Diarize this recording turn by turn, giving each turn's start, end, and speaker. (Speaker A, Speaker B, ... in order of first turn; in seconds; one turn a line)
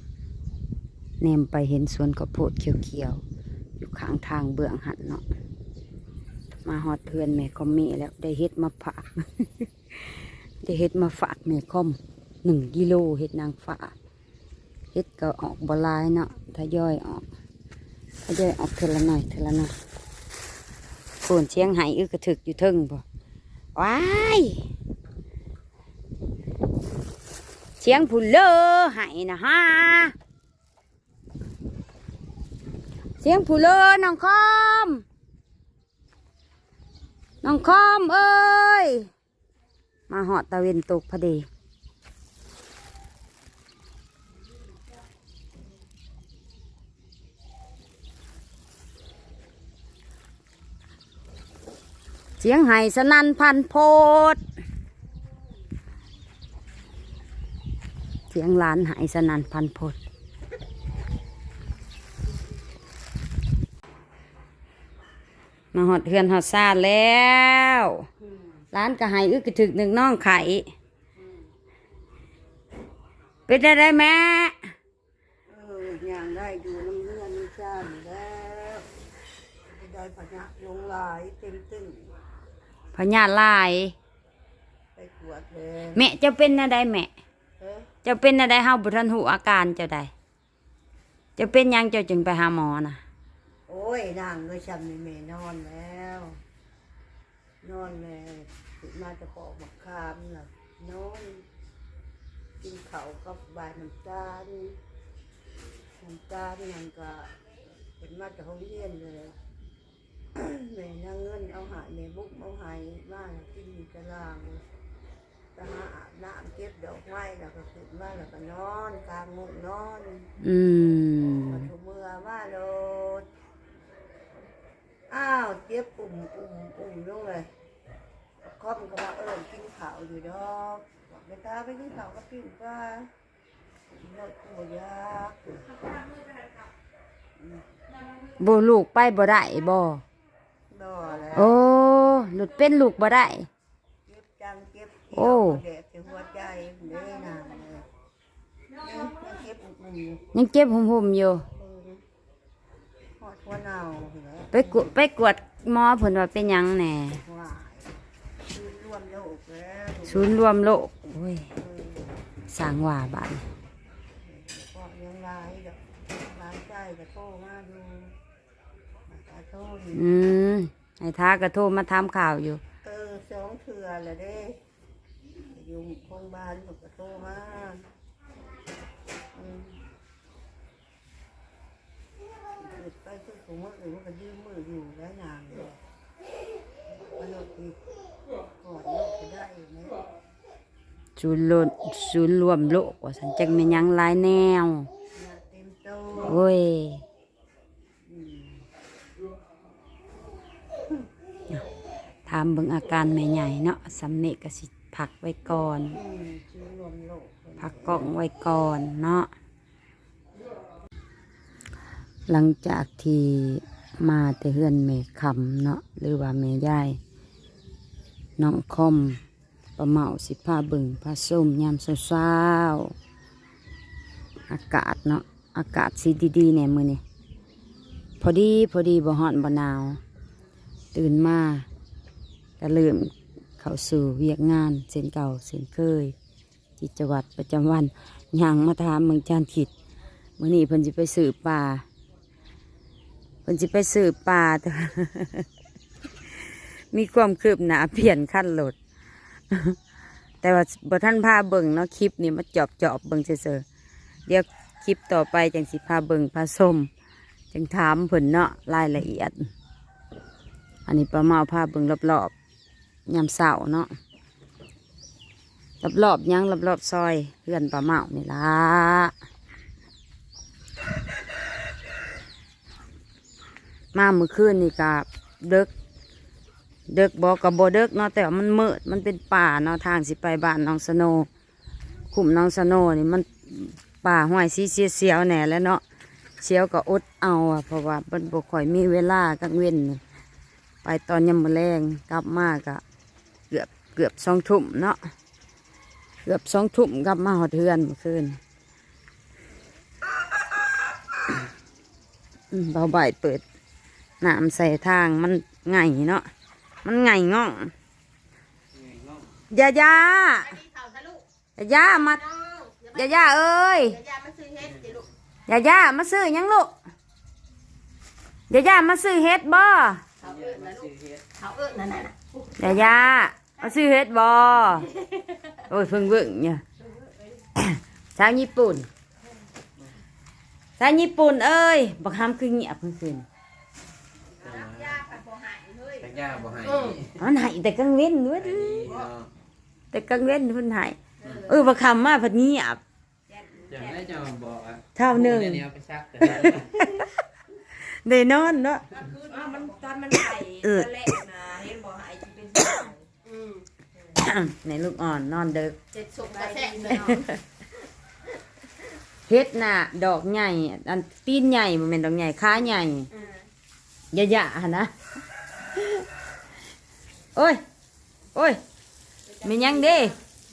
Speaker A: 1.2-3.2
Speaker A: 3.8-5.2
Speaker A: 6.7-9.7
Speaker A: 10.6-13.9
Speaker A: 14.9-17.2
Speaker A: 18.2-19.7
Speaker A: 21.2-23.0
Speaker A: 23.8-24.6
Speaker A: 27.8-30.1
Speaker A: 33.2-35.0
Speaker A: 37.4-39.1
Speaker A: 40.1-41.5
Speaker A: 52.4-54.4
Speaker A: 58.3-60.0
Speaker A: 65.7-68.1
Speaker A: 68.7-70.7
Speaker A: 73.5-74.6
Speaker B: 75.5-78.9
Speaker B: 79.7-82.1
Speaker A: 83.0-84.0
Speaker B: 85.0-86.1
Speaker A: 85.9-87.1
Speaker B: 87.6-87.9
Speaker A: 88.0-90.1
Speaker A: 91.4-93.0
Speaker B: 93.7-96.4
Speaker B: 97.6-101.5
Speaker B: 102.6-104.8
Speaker B: 106.0-107.3
Speaker B: 108.0-109.3
Speaker B: 110.3-114.6
Speaker B: 115.5-120.3
Speaker A: 120.4-121.7
Speaker B: 121.5-123.3
Speaker B: 125.1-127.5
Speaker B: 128.4-133.1
Speaker B: 134.0-136.1
Speaker A: 138.4-140.0
Speaker B: 140.7-141.6
Speaker A: 141.3-143.5
Speaker B: 144.1-147.9
Speaker A: 145.2-145.6
Speaker B: 148.8-150.2
Speaker A: 150.3-151.4
Speaker B: 151.6-152.0
Speaker B: 153.2-154.9
Speaker A: 154.5-157.2
Speaker B: 157.1-157.9
Speaker B: 158.5-160.4
Speaker A: 160.1-161.5
Speaker B: 161.6-162.1
Speaker A: 162.5-163.4
Speaker B: 164.2-168.1
Speaker B: 169.1-170.1
Speaker A: 169.9-172.6
Speaker B: 172.8-174.6
Speaker B: 175.5-177.9
Speaker B: 179.3-179.8
Speaker B: 182.6-185.8
Speaker B: 186.9-187.8
Speaker B: 188.6-190.0
Speaker A: 191.2-194.9
Speaker B: 195.2-196.4
Speaker A: 196.2-197.0
Speaker B: 198.1-198.6
Speaker A: 202.3-206.0
Speaker B: 205.9-208.1
Speaker A: 207.6-209.3
Speaker A: 212.3-217.0
Speaker A: 218.4-219.2
Speaker A: 219.8-222.9
Speaker A: 224.5-227.0
Speaker A: 228.2-230.0
Speaker A: 230.9-231.7
Speaker A: 232.6-236.1
Speaker A: 236.8-239.7
Speaker A: 240.4-241.8
Speaker A: 243.5-245.5
Speaker A: 246.9-248.8
Speaker A: 249.5-249.8
Speaker A: 250.4-253.6
Speaker A: 254.3-256.9
Speaker A: 257.5-259.5
Speaker A: 260.9-262.3
Speaker A: 263.1-263.9
Speaker A: 265.8-269.1
Speaker A: 273.9-275.7
Speaker A: 276.9-281.3
Speaker A: 282.1-285.8
Speaker A: 286.4-290.0
Speaker A: 290.8-292.8
Speaker A: 293.5-295.0
Speaker A: 296.2-298.4
Speaker A: 302.5-303.4
Speaker A: 304.2-306.3
Speaker A: 306.8-307.7
Speaker A: 309.5-310.6
Speaker C: 310.6-311.2
Speaker A: 311.6-312.2
Speaker C: 312.3-312.9
Speaker A: 312.9-314.0
Speaker C: 314.0-315.1
Speaker A: 315.5-316.7
Speaker A: 318.5-320.0
Speaker C: 320.2-322.2
Speaker D: 320.3-321.1
Speaker A: 322.6-324.9
Speaker A: 325.6-326.6
Speaker A: 327.6-328.9
Speaker A: 330.8-333.2
Speaker D: 334.4-335.0
Speaker C: 334.4-337.0
Speaker D: 336.1-337.1
Speaker A: 337.1-339.1
Speaker A: 339.9-342.8
Speaker C: 343.4-343.9
Speaker D: 343.7-344.8
Speaker A: 344.9-347.1
Speaker D: 345.6-346.5
Speaker A: 347.8-348.9
Speaker C: 349.2-350.2
Speaker A: 350.3-351.4
Speaker C: 351.6-352.3
Speaker A: 352.5-352.9
Speaker C: 353.3-353.6
Speaker A: 354.1-355.8
Speaker C: 355.9-357.2
Speaker A: 356.8-357.4
Speaker A: 359.3-363.1
Speaker A: 364.1-364.9
Speaker A: 365.7-366.0
Speaker A: 367.4-367.6
Speaker A: 368.4-368.6
Speaker A: 369.4-370.2